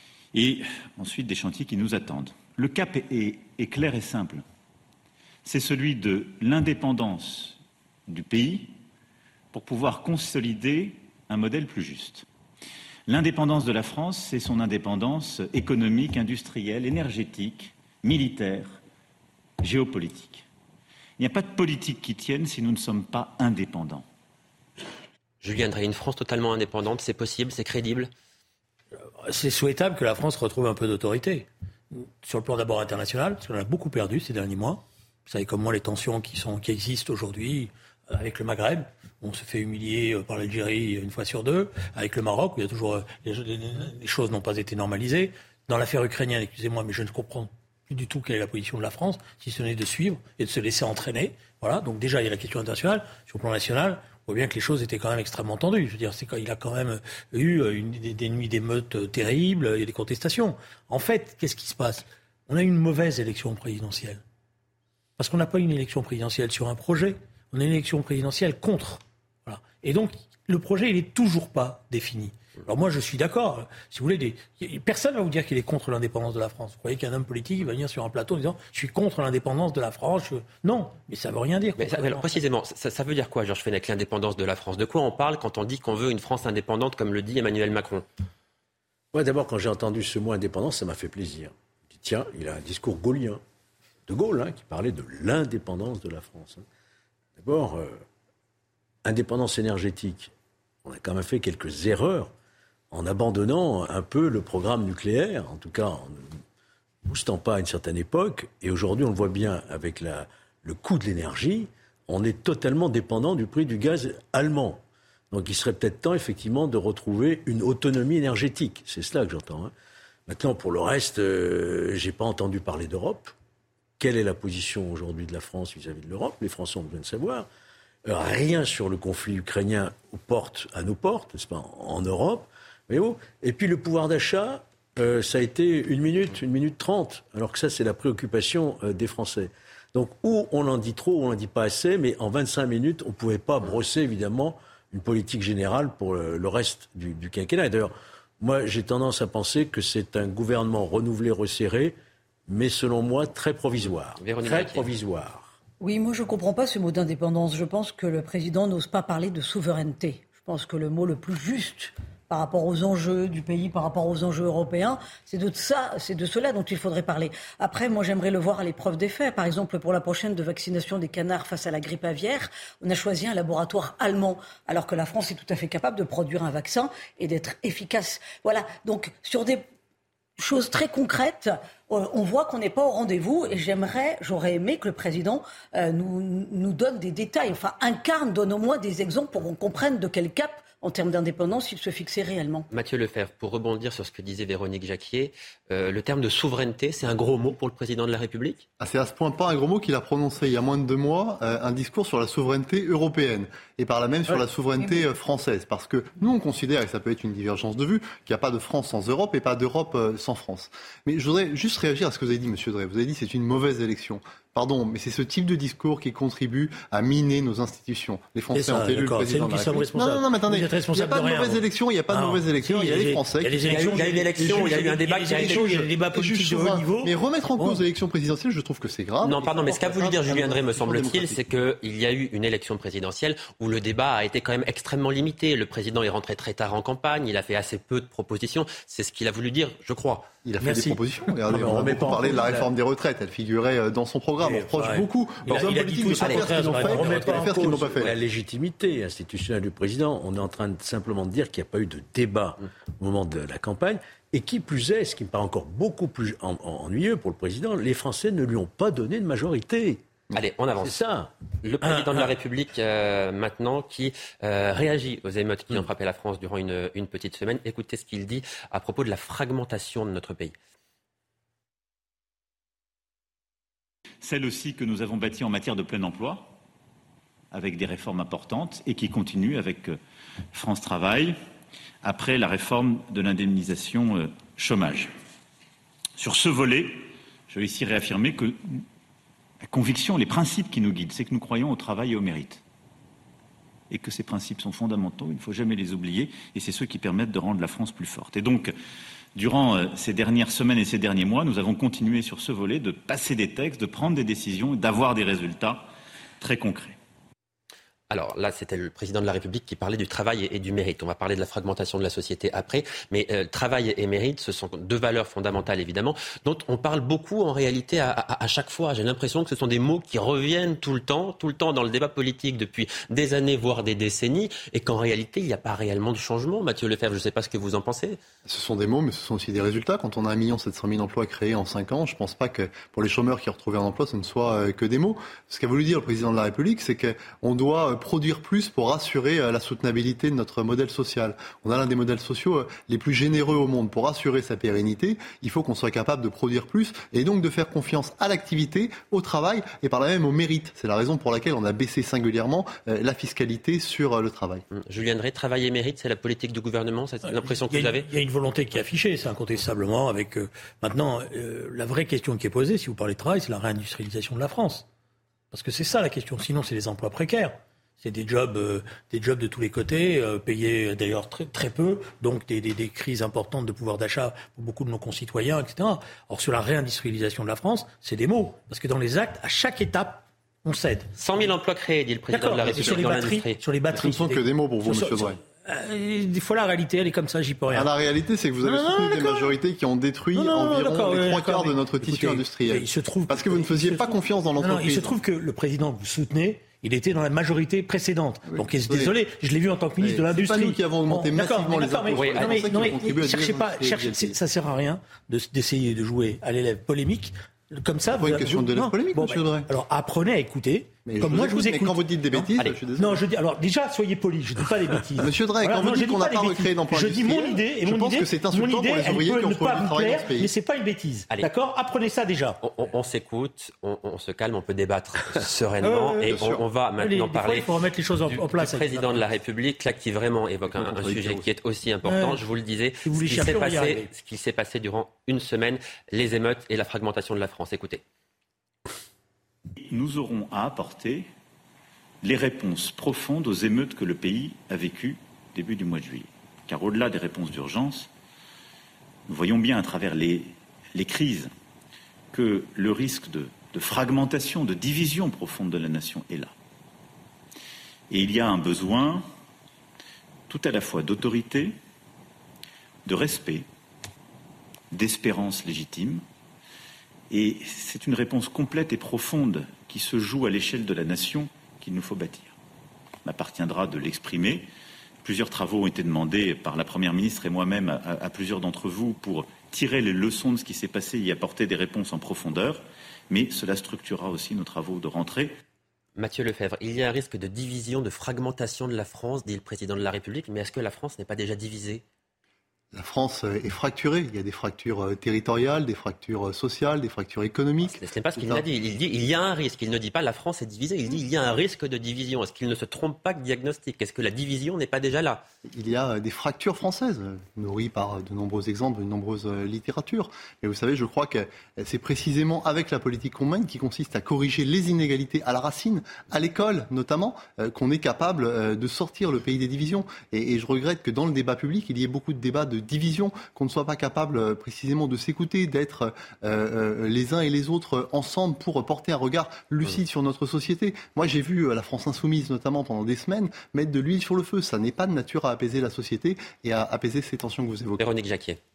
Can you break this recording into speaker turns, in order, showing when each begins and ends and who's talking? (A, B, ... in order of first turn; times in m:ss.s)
0:00.3-0:04.4 A
0:05.4-0:08.8 A
0:09.5-0:12.2 A
0:13.1-0:18.8 A
0:19.6-0:20.4 A
0:21.2-0:24.0 A
0:25.4-0:28.1 B
0:29.2-1:04.2 C
1:05.2-1:22.3 C
1:21.8-1:28.0 B
1:29.1-1:33.4 D
1:34.1-1:36.6 D
1:37.4-1:38.0 D
1:39.0-1:40.3 D
1:40.8-1:42.3 D
1:42.9-1:46.3 D
1:47.0-1:59.7 D
2:00.3-2:03.3 D
2:04.0-2:07.5 D
2:08.0-2:32.0 D
2:32.5-2:35.6 D
2:34.2-2:34.8 B
2:35.8-2:59.6 E
3:00.4-3:12.7 E
3:12.7-3:18.6 B
3:18.8-3:44.8 F
3:38.5-3:47.8 C
3:43.6-3:45.8 B
3:45.3-3:51.4 F
3:49.2-4:00.3 B
4:00.4-4:08.1 F
4:00.6-4:01.0 C
4:01.5-4:02.7 D
4:04.5-4:07.5 C
4:05.5-4:06.4 B
4:06.6-4:20.0 D
4:20.3-4:21.0 B
4:20.8-4:21.3 D
4:21.6-4:30.5 B
4:34.2-4:36.5 A
4:37.5-4:40.0 A
4:40.5-4:41.4 A
4:42.0-4:45.1 A
4:46.2-4:48.8 A
4:49.6-4:52.6 A
4:53.9-4:58.7 A
4:59.4-5:05.9 A
5:06.4-5:07.0 A
5:08.1-5:28.2 B
5:28.4-5:54.6 F
5:54.7-5:58.1 B
5:57.2-6:04.8 C
6:05.5-6:21.1 C
6:21.2-6:23.6 B
6:22.3-6:27.9 C
6:22.7-6:22.9 F
6:23.9-6:25.4 F
6:27.7-6:35.2 F
6:28.6-6:29.5 C
6:30.3-7:02.6 C
6:38.5-6:39.1 F
6:40.0-6:44.4 F
6:42.1-6:42.8 B
6:48.1-6:49.7 F
6:51.0-6:53.2 F
6:55.2-7:00.5 F
7:02.6-7:07.7 B
7:05.8-7:06.4 C
7:06.2-7:06.6 F
7:07.0-7:09.2 C
7:08.2-7:18.0 B
7:10.8-7:11.4 F
7:12.0-7:12.4 C
7:13.0-7:14.1 C
7:19.9-7:21.3 A
7:22.2-7:28.1 A
7:29.3-7:31.5 A
7:32.3-7:36.5 A
7:38.1-7:39.2 A
7:40.5-7:41.8 A
7:43.0-7:43.7 A
7:44.9-7:46.2 A
7:47.3-7:52.5 A
7:53.2-7:54.7 A
7:55.2-8:05.6 A
8:06.2-8:12.0 B
8:12.9-8:18.6 F
8:17.9-8:25.4 B
8:25.6-8:58.0 F
8:58.0-8:58.6 B